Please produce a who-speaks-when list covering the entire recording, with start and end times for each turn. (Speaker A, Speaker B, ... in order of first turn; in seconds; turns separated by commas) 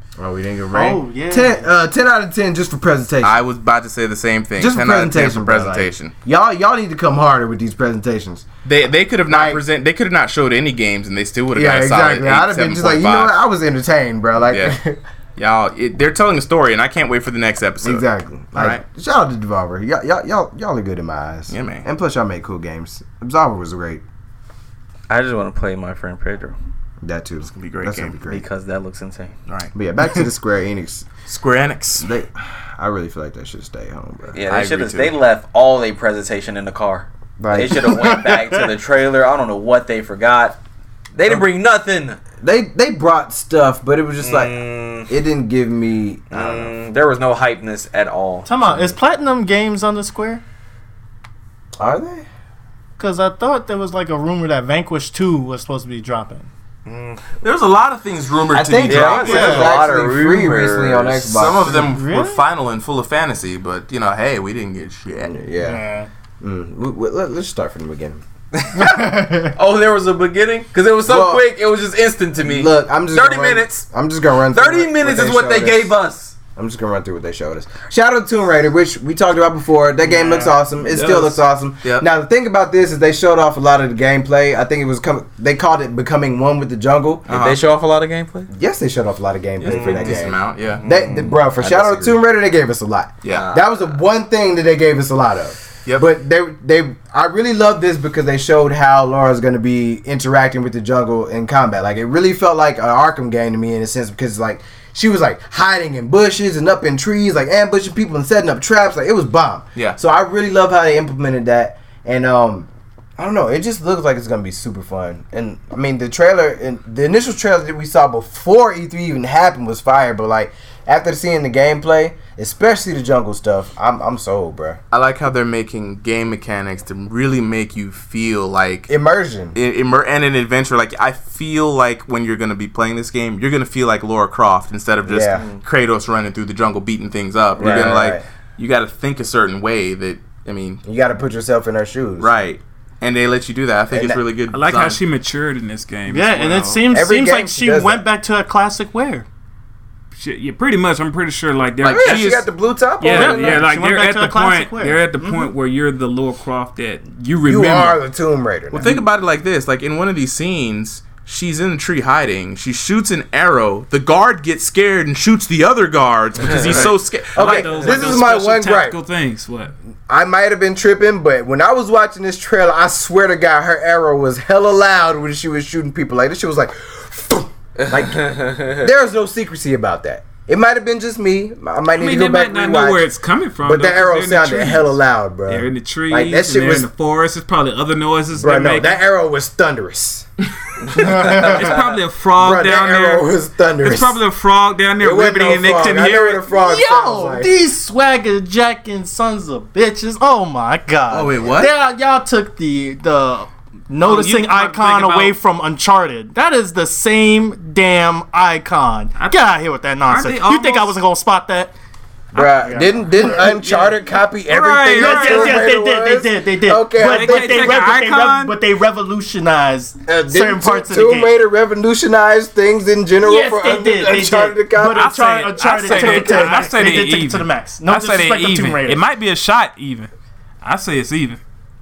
Speaker A: 0.2-3.4, Speaker B: 0.7-1.7, Speaker C: 3.2-6.1, Speaker A: 4.6-8.5, Speaker C: 8.7-13.3, Speaker A: 9.3-9.6, Speaker A: 11.6-15.0, Speaker C: 14.5-14.8, Speaker C: 15.4-18.8, Speaker A: 17.8-24.0, Speaker C: 21.5-21.9, Speaker D: 25.1-26.6, Speaker A: 27.0-28.5, Speaker C: 27.5-28.2, Speaker D: 28.3-29.3, Speaker C: 29.5-29.7, Speaker A: 29.7-31.1, Speaker C: 31.3-32.1, Speaker A: 32.0-34.4, Speaker D: 34.3-40.6, Speaker C: 34.5-35.1, Speaker A: 37.4-38.2, Speaker B: 37.9-38.6, Speaker D: 41.1-42.2, Speaker A: 42.4-46.7, Speaker D: 44.2-45.1, Speaker D: 46.3-49.0, Speaker B: 48.5-50.4, Speaker A: 51.8-52.3, Speaker B: 53.0-56.5, Speaker D: 56.9-57.2, Speaker C: 57.4-59.7, Speaker A: 58.5-61.9, Speaker D: 58.9-61.5, Speaker B: 59.2-59.7, Speaker C: 61.3-65.4, Speaker B: 61.7-62.4, Speaker A: 65.3-65.9, Speaker B: 65.6-66.1, Speaker A: 66.4-68.2, Speaker D: 68.7-73.9, Speaker B: 68.8-69.5, Speaker A: 71.0-71.5, Speaker A: 72.4-76.0, Speaker D: 74.5-76.3, Speaker A: 76.6-87.3, Speaker D: 80.0-80.6, Speaker C: 87.3-87.6, Speaker D: 87.3-88.5, Speaker A: 88.5-124.8, Speaker C: 89.6-90.9, Speaker D: 89.6-92.2, Speaker C: 93.2-93.5, Speaker D: 93.3-93.7, Speaker C: 124.9-128.9, Speaker A: 128.9-129.5, Speaker C: 129.5-140.8, Speaker A: 135.1-135.5, Speaker D: 135.3-135.6, Speaker A: 137.6-138.2, Speaker D: 137.6-137.9, Speaker A: 140.8-142.3, Speaker C: 142.2-145.0, Speaker A: 143.9-144.2, Speaker E: 144.5-146.9, Speaker B: 146.1-149.3, Speaker A: 146.9-148.0, Speaker E: 150.1-152.5, Speaker C: 151.8-152.4, Speaker A: 151.8-153.7, Speaker E: 153.0-158.0, Speaker B: 153.1-155.5, Speaker A: 157.4-158.9, Speaker C: 158.7-167.9, Speaker E: 158.8-159.1, Speaker E: 166.5-169.7, Speaker D: 166.5-166.9, Speaker A: 166.6-169.0, Speaker A: 170.1-183.1, Speaker D: 177.8-178.9, Speaker E: 181.9-185.0, Speaker A: 183.6-186.9, Speaker E: 185.5-189.0, Speaker A: 188.3-190.3, Speaker A: 190.9-191.8, Speaker E: 191.0-193.3, Speaker A: 192.4-194.2, Speaker E: 193.8-196.4, Speaker A: 195.0-197.5, Speaker B: 196.5-211.7, Speaker C: 201.1-201.7, Speaker E: 204.0-205.4, Speaker E: 209.2-209.4, Speaker E: 210.0-211.0, Speaker A: 212.3-217.8, Speaker B: 212.4-213.4, Speaker E: 213.1-215.7, Speaker B: 214.9-221.3, Speaker E: 217.0-218.6, Speaker A: 220.1-225.1, Speaker B: 223.2-229.0, Speaker E: 224.8-230.1, Speaker A: 225.9-226.6, Speaker E: 230.6-231.4